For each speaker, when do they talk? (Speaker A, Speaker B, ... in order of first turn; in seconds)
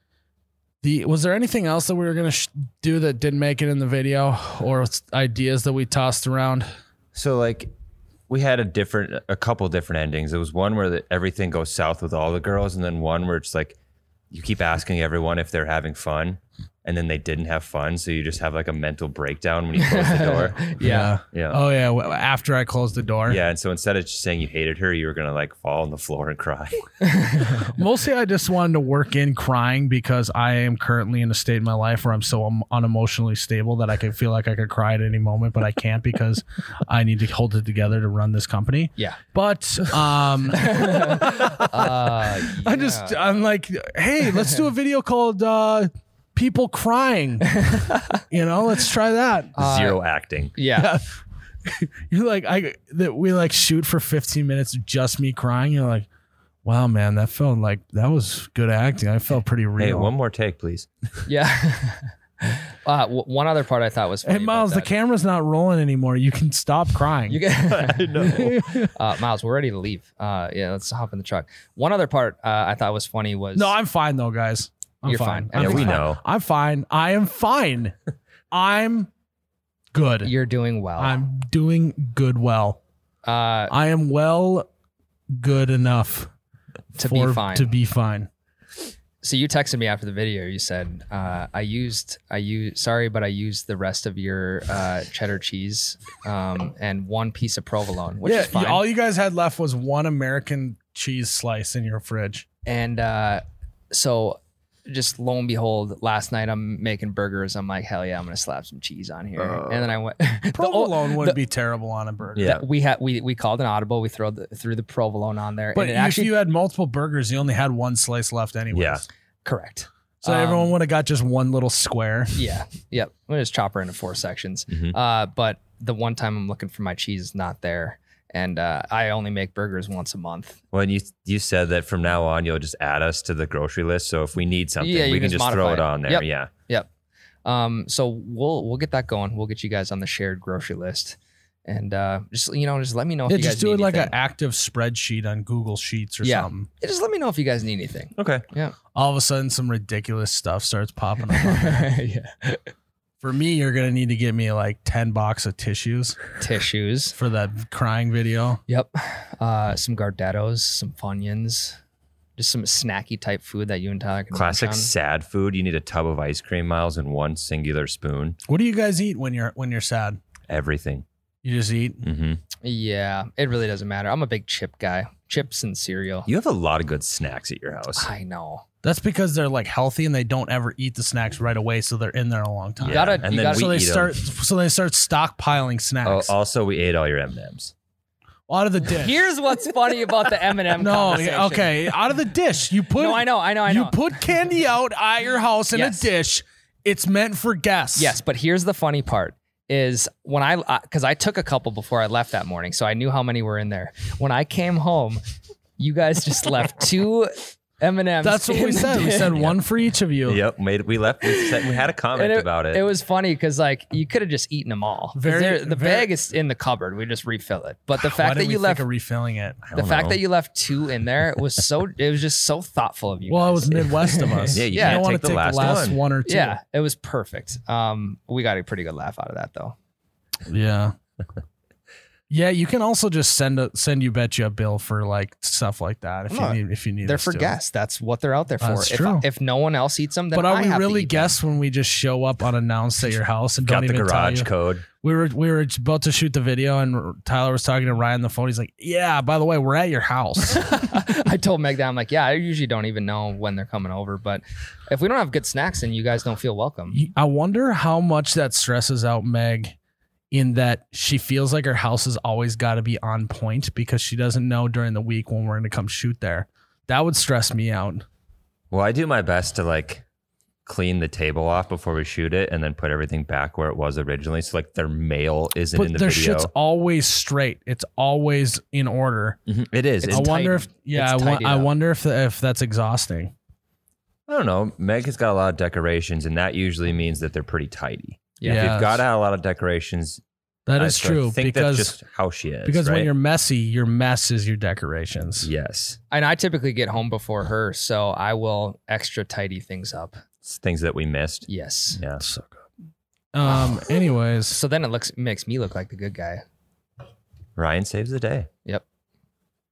Speaker A: 0.8-6.7, 20.8-23.4, 27.7-49.5, 50.7-51.0, 51.6-56.1, 56.6-60.1, 64.2-67.4, 68.2-68.9, 73.5-77.9, 78.5-79.1, 79.9-80.3, 81.0-82.8, 83.7-84.7, 85.3-86.3, 86.9-88.3, 98.2-102.5, 110.5-112.5, 115.7-119.0, 120.2-122.4, 143.2-146.7, 148.9-151.9, 153.2-156.2, 157.1-158.6, 168.4-170.2, 171.4-172.0, 178.8-186.3, 188.5-189.2, 190.8-198.2, 208.2-210.4, 215.1-216.1, 217.9-219.6, 223.3-226.6, 230.4-230.9, 232.3-237.5, 238.6-239.2, 240.3-244.5, 245.0-250.7, 256.9-259.7, 260.3-268.1, 275.7-279.4, 280.1-283.3, 288.4-289.0, 290.6-292.0, 292.6-295.5, 302.2-302.6, 303.3-304.6
Speaker B: 7.1-7.7, 8.3-13.8, 14.3-20.7, 21.3-21.6, 23.3-26.9, 49.6-50.5, 59.8-60.9, 67.6-68.6, 75.5-76.2, 109.4-109.9, 112.3-112.6, 118.7-119.0, 130.7-136.5, 148.2-148.4, 164.3-168.4, 170.5-171.0, 172.0-172.4, 176.2-178.1, 182.8-184.2, 186.0-187.7, 210.2-212.8, 219.7-220.2, 224.5-226.0, 243.6-244.8, 268.7-270.0, 270.6-276.5, 279.5-280.3, 284.3-290.2, 290.8-293.1, 295.4-296.0, 300.4-302.2, 307.6-308.5
Speaker C: 19.8-21.1, 27.0-27.6, 40.5-43.3, 47.6-48.2, 49.6-50.0, 50.5-50.9, 61.2-64.9, 67.3-73.7, 75.0-76.0, 80.2-81.2, 83.2-83.7, 87.0-87.7, 89.2-98.8, 102.7-111.4, 112.4-116.3, 119.4-120.7, 122.3-130.6, 134.8-136.9, 137.4-144.1, 146.2-148.8, 151.3-152.7, 156.4-157.2, 158.7-161.8, 162.4-164.9, 172.6-176.3, 177.9-178.6, 182.8-183.8, 188.9-191.9, 192.9-194.1, 195.7-196.1, 198.0-205.2, 205.8-209.5, 211.2-218.8, 219.7-229.7, 236.3-241.3, 250.5-257.0, 280.0-281.7, 288.4-288.8, 296.1-300.2, 301.5-302.0, 303.4-306.4